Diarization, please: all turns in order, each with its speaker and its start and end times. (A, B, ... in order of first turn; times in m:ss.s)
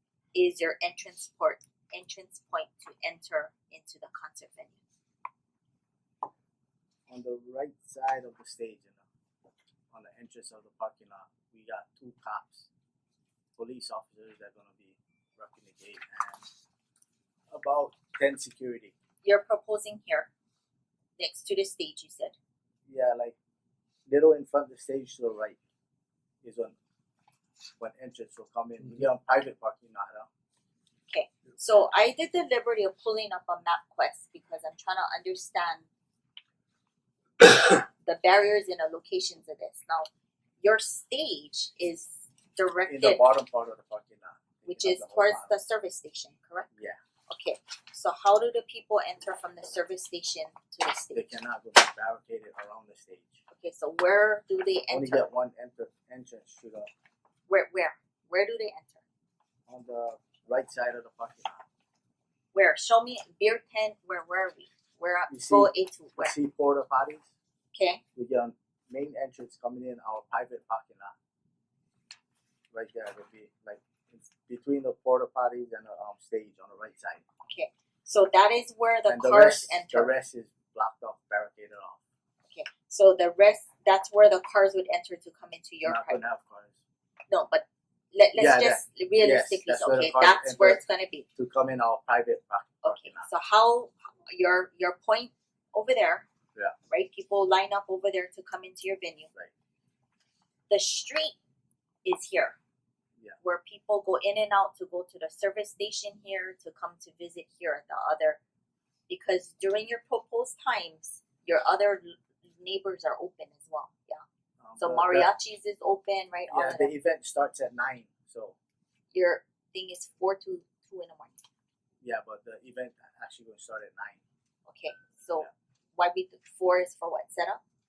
0:00.3-0:04.8 A
0:07.1-0:09.0 B
0:09.9-0:12.7 B
0:13.6-0:16.5 B
0:17.5-0:18.9 B
0:19.2-0:20.3 A
0:21.2-0:22.4 A
0:22.9-0:23.4 B
0:24.1-0:25.6 B
0:26.4-0:26.7 B
0:27.8-0:30.3 B
0:31.1-0:35.9 A
0:37.4-0:40.1 A
0:40.6-0:43.2 A
0:42.9-0:45.5 B
0:44.7-0:46.7 A
0:47.3-0:51.4 A
0:51.1-0:53.4 B
0:53.5-0:55.3 A
0:54.9-0:56.9 B
0:57.5-0:59.0 A
0:59.7-1:01.6 B
1:02.5-1:06.3 A
1:05.3-1:07.3 B
1:07.7-1:08.0 A
1:08.2-1:11.1 B
1:12.7-1:17.2 B
1:17.5-1:20.1 A
1:19.1-1:22.0 B
1:22.5-1:26.2 A
1:25.8-1:26.8 B
1:27.3-1:31.3 A
1:28.4-1:30.8 B
1:31.4-1:33.3 B
1:32.8-1:36.3 A
1:36.9-1:39.3 A
1:40.7-1:41.4 A
1:42.0-1:42.6 A
1:43.4-1:48.4 A
1:49.1-1:54.2 A
1:54.6-1:55.3 B
1:54.8-1:56.9 A
1:56.5-1:58.6 B
1:59.1-2:01.4 A
2:02.0-2:04.2 B
2:04.7-2:07.6 A